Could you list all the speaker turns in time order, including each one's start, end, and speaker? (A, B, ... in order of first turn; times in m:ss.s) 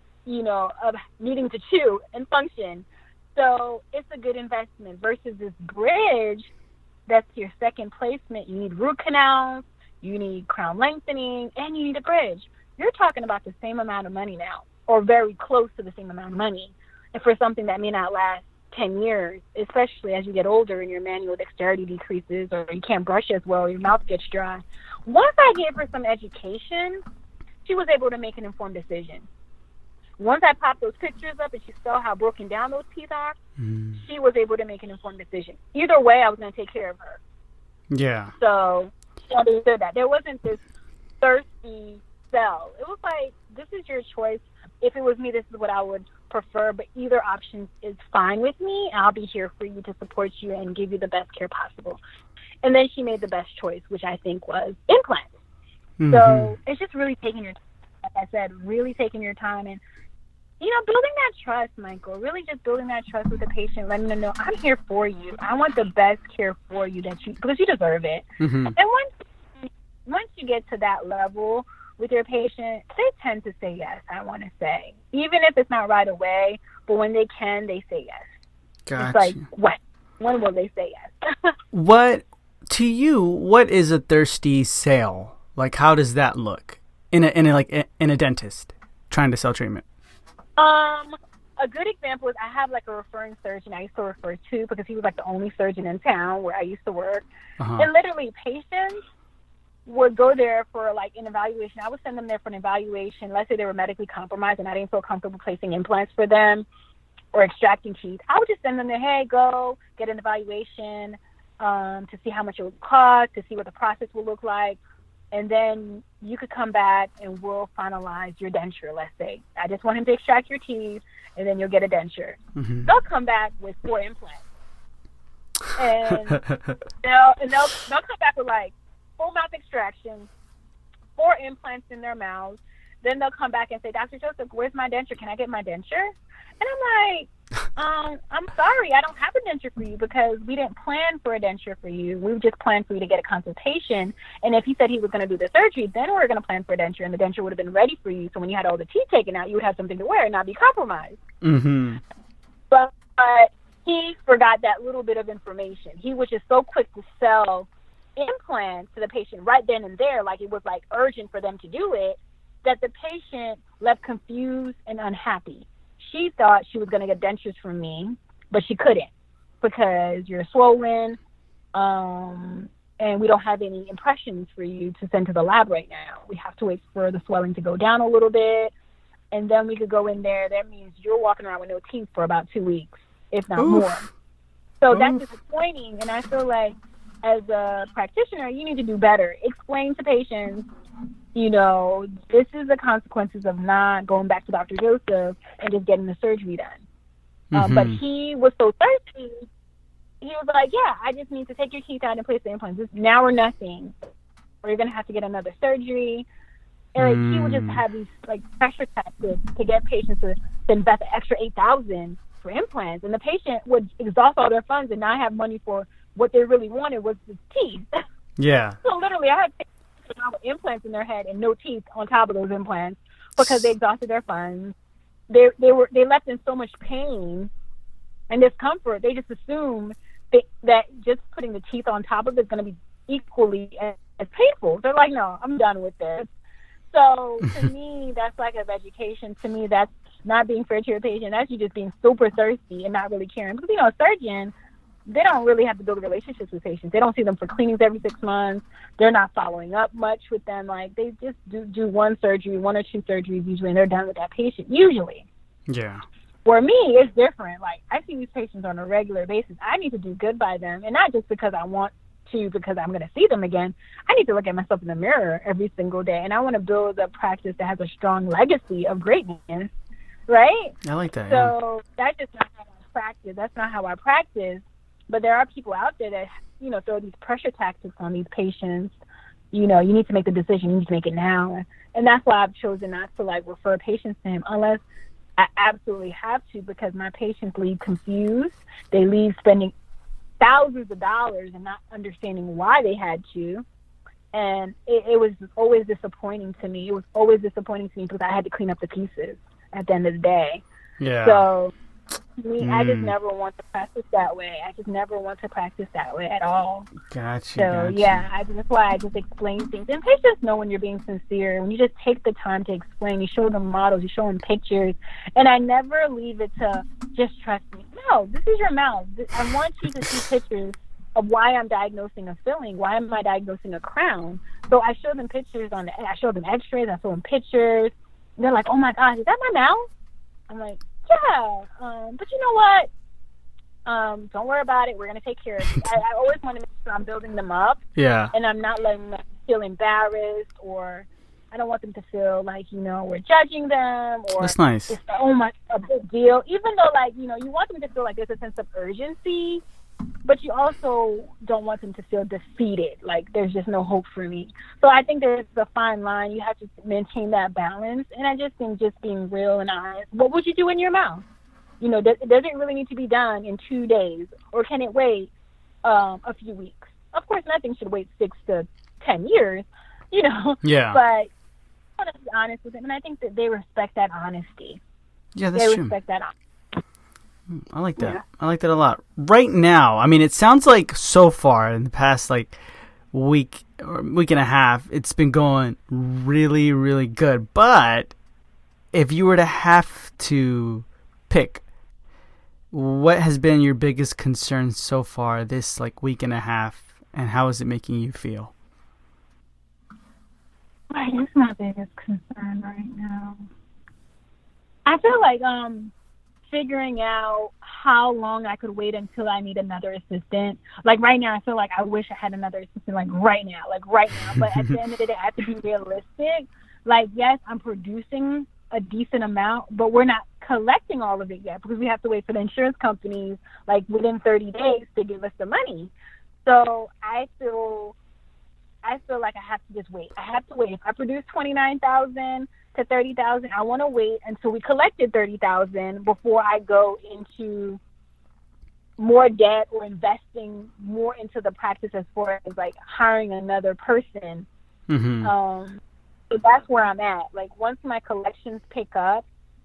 0:00.2-0:06.5 A
0:07.1-0:27.0 A
0:27.6-0:29.3 A
0:30.2-0:33.4 A
0:33.6-0:34.0 B
0:34.0-0:37.2 A
0:37.9-0:38.3 B
0:38.4-0:40.6 A
0:41.2-0:52.0 A
0:52.6-0:55.3 A
0:56.0-0:56.5 B
0:56.1-0:59.8 A
1:00.6-1:18.3 A
1:08.4-1:08.8 B
1:18.8-1:19.4 B
1:19.0-1:21.5 A
1:21.7-1:29.8 B
1:30.6-1:37.2 A
1:37.6-1:37.9 B
1:37.8-1:39.0 A
1:39.8-1:46.6 A
1:47.3-1:54.8 A
1:55.3-2:04.4 A
2:02.6-2:02.9 B
2:05.7-2:06.4 A
2:06.3-2:06.8 B
2:07.0-2:10.3 A
2:11.2-2:31.2 A
2:31.4-2:32.0 B
2:32.7-2:49.1 A
2:49.6-2:51.2 A
2:51.7-2:58.7 A
2:59.3-3:04.1 A
3:03.6-3:04.0 B
3:04.8-3:10.7 A
3:04.9-3:05.2 B
3:11.3-3:16.8 A
3:17.5-3:18.0 B
3:17.5-3:19.5 A
3:20.2-3:23.9 A
3:24.6-3:26.2 A
3:26.9-3:37.8 A
3:27.0-3:27.8 B
3:38.4-3:38.8 B
3:38.8-3:44.7 A
3:43.4-3:43.7 B
3:45.3-3:47.5 A
3:48.3-3:56.3 A
3:56.9-4:04.5 A
4:05.0-4:15.3 A
4:15.7-4:16.0 B
4:16.4-4:29.7 A
4:30.3-4:30.8 A
4:30.8-4:31.5 B
4:31.3-4:39.0 A
4:39.5-4:44.8 A
4:45.4-4:49.7 A
4:50.4-4:53.6 A
4:54.3-5:00.6 A
5:01.0-5:01.4 B
5:01.2-5:01.7 A
5:02.4-5:06.9 A
5:02.6-5:03.1 B
5:07.1-5:08.2 B
5:07.6-5:29.9 A
5:30.5-5:32.9 A
5:33.8-5:37.8 A
5:38.0-5:38.3 B
5:38.3-5:49.6 A
5:44.4-5:45.0 B
5:50.2-6:01.2 A
6:01.8-6:05.3 A
6:05.8-6:11.3 A
6:10.6-6:11.0 B
6:12.0-6:14.8 A
6:15.3-6:15.9 B
6:15.5-6:16.3 A
6:17.5-6:22.6 B
6:18.0-6:18.2 A
6:23.1-6:28.1 B
6:28.9-6:31.6 B
6:32.7-6:38.5 B
6:40.9-6:43.4 A
6:44.8-6:45.9 A
6:46.5-7:05.9 A
6:54.2-6:54.8 B
7:06.4-7:08.0 A
7:08.8-7:17.8 A
7:19.0-7:24.5 A
7:24.9-7:25.3 B
7:25.2-7:29.2 A